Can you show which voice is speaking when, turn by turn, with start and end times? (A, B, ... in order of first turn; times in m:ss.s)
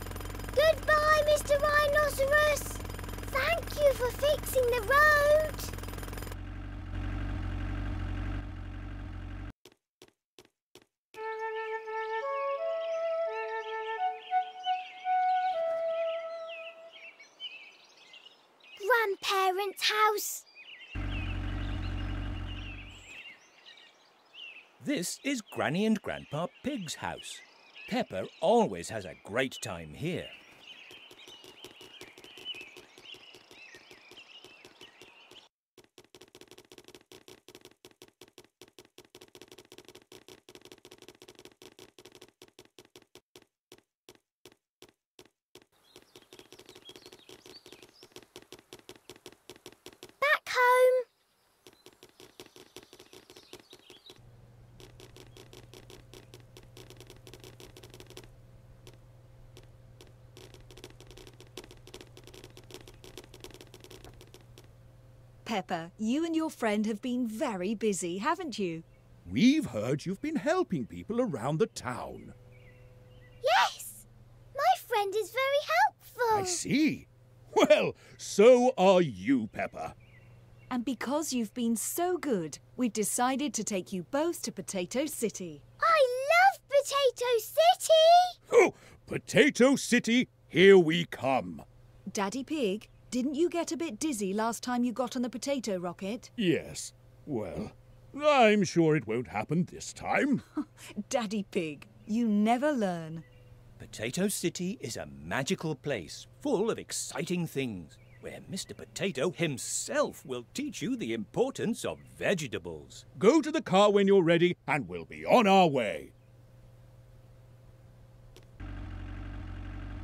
0:00.5-0:05.7 A
0:18.8-0:20.5 A
0:24.8-0:30.4 B
0:50.2-0:51.1 A
1:05.4-1:08.8 C
1:09.2-1:12.4 D
1:13.4-1:16.6 A
1:16.3-1:20.0 D
1:20.7-1:25.6 C
1:25.8-1:28.4 A
1:28.5-1:31.6 D
1:32.1-1:36.3 C
1:36.4-1:40.4 D
1:40.6-1:43.2 C
1:43.8-1:53.0 B
1:53.2-1:56.1 D